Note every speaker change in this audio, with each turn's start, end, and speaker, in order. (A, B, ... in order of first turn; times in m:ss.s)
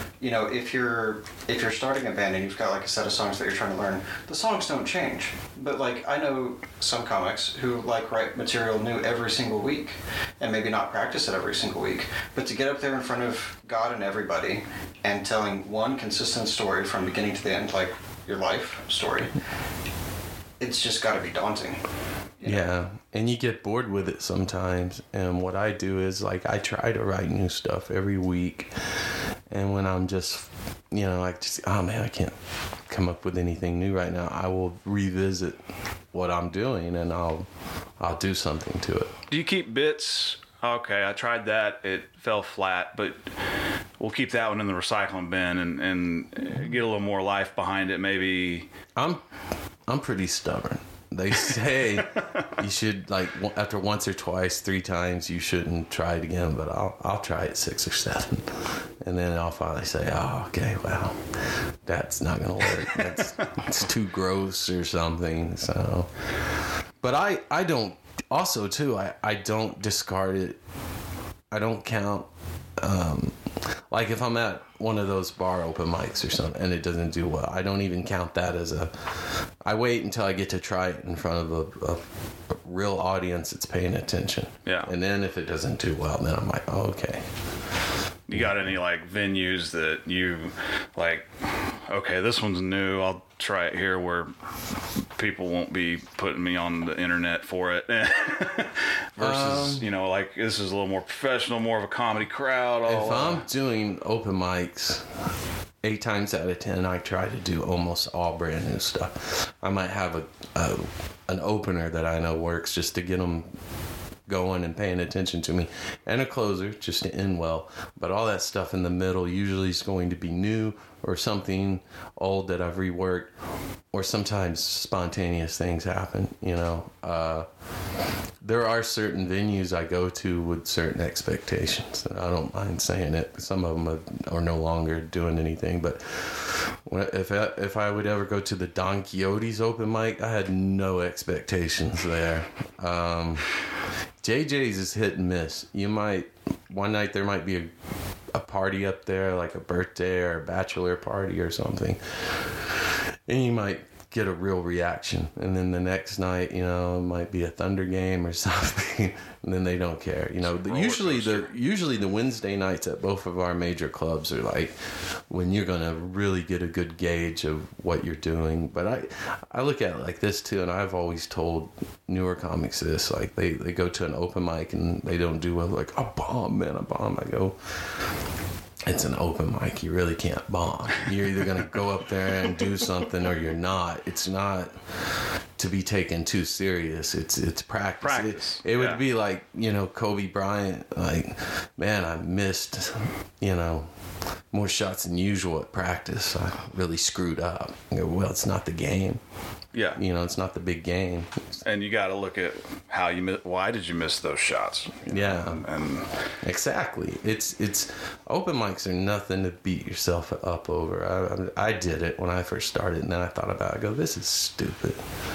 0:00.2-0:19.4 A
0:20.6-0:21.8 A
0:22.4-0:22.7 A
0:22.4-0:28.7 B
0:29.5-0:32.4 B
0:32.9-0:35.6 B
0:36.1-0:37.5 B
0:38.0-0:39.1 B
0:39.3-0:43.3 C
0:44.0-0:48.7 C
0:49.0-0:49.2 B
0:49.9-1:06.1 B
1:07.0-1:10.6 B
1:11.5-1:13.3 B
1:13.9-1:27.3 B
1:24.6-1:24.9 C
1:28.3-1:34.3 C
1:35.1-1:43.4 C
1:39.2-1:39.9 B
1:42.8-1:45.1 B
1:45.8-1:53.6 B
1:54.3-2:03.3 B
2:03.9-2:07.4 B
2:08.4-2:23.5 B
2:24.2-2:27.7 B
2:28.3-2:44.8 B
2:40.4-2:41.5 C
2:45.3-2:57.6 B
2:58.8-3:04.8 B
3:05.6-3:13.9 B
3:08.0-3:09.0 C
3:14.5-3:19.2 B
3:19.7-3:20.0 C
3:19.9-3:21.5 B
3:21.6-3:26.1 C
3:25.1-3:25.6 B
3:26.4-3:35.0 B